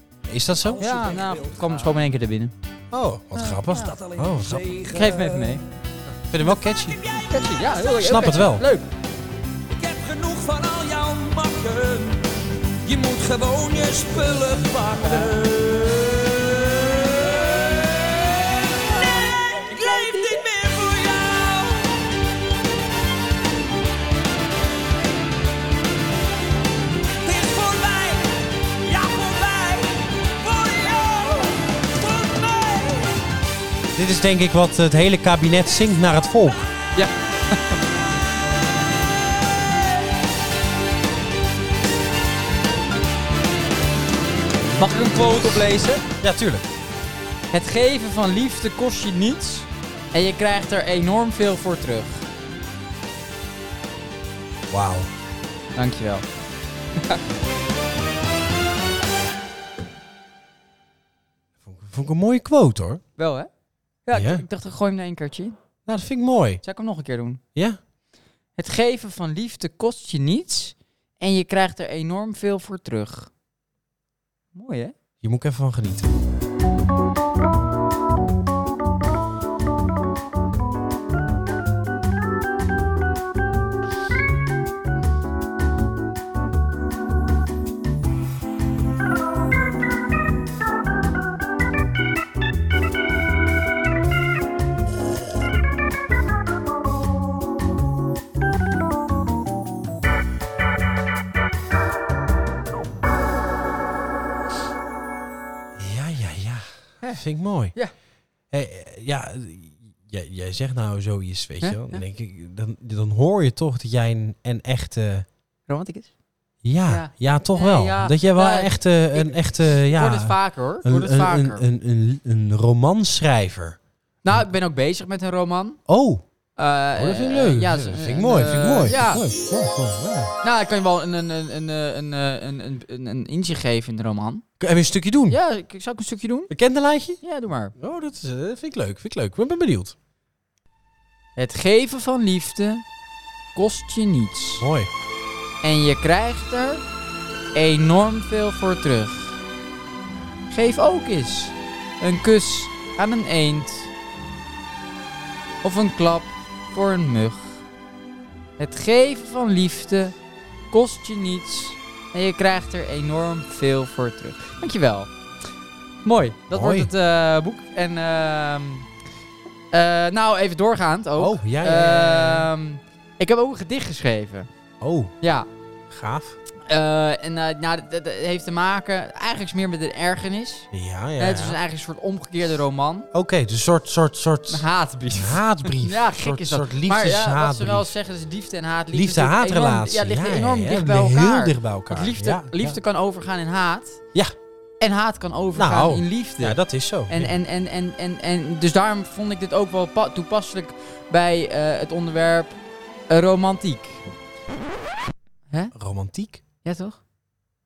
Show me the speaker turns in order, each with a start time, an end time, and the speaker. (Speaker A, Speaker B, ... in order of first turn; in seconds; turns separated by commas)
Speaker A: 0.3-0.9, Speaker B: 0.6-1.9, Speaker C: 0.8-2.5, Speaker A: 2.9-4.8, Speaker C: 3.4-4.0, Speaker B: 3.9-5.6, Speaker C: 4.8-5.6, Speaker A: 6.3-7.0, Speaker B: 6.4-8.0, Speaker C: 7.3-8.9, Speaker A: 8.0-8.7, Speaker B: 9.7-12.3, Speaker B: 12.8-22.1, Speaker C: 15.0-15.4, Speaker C: 19.7-20.4, Speaker B: 27.2-33.1, Speaker A: 34.0-36.7, Speaker C: 37.0-37.8, Speaker C: 44.8-46.0, Speaker A: 46.2-46.6, Speaker C: 47.5-52.3, Speaker A: 54.7-55.1, Speaker C: 55.8-56.3, Speaker A: 61.6-63.0, Speaker C: 63.2-63.5, Speaker C: 64.1-65.6, Speaker A: 64.1-64.4, Speaker A: 65.9-66.6, Speaker C: 66.6-67.4, Speaker C: 68.6-73.3, Speaker C: 74.5-74.9, Speaker A: 75.2-76.1, Speaker A: 105.8-107.7, Speaker A: 108.5-115.3, Speaker C: 111.6-112.0, Speaker C: 115.7-116.1, Speaker A: 116.6-123.8, Speaker C: 116.9-121.6, Speaker C: 124.2-125.8, Speaker A: 125.9-126.2, Speaker C: 126.6-129.2, Speaker A: 127.0-130.3, Speaker C: 130.4-134.4, Speaker A: 134.6-135.4, Speaker C: 135.3-136.5, Speaker A: 136.5-137.2, Speaker C: 137.2-137.7, Speaker A: 137.8-139.9, Speaker C: 141.4-142.8, Speaker C: 143.6-144.7, Speaker A: 144.6-144.9, Speaker C: 145.6-146.8, Speaker C: 147.6-149.4, Speaker C: 150.5-153.9, Speaker C: 155.6-157.6, Speaker C: 158.6-160.2, Speaker C: 160.7-165.1, Speaker C: 166.1-168.9, Speaker A: 166.5-166.9, Speaker C: 169.7-174.5, Speaker A: 171.2-172.5, Speaker A: 174.8-175.1, Speaker C: 175.2-175.5, Speaker A: 175.9-176.4, Speaker C: 176.7-183.1, Speaker A: 180.7-181.6, Speaker A: 183.1-187.9, Speaker C: 184.5-194.0, Speaker A: 188.9-192.8, Speaker C: 194.8-202.6, Speaker A: 195.6-197.3, Speaker C: 203.1-204.0, Speaker A: 205.7-206.4, Speaker C: 206.6-207.0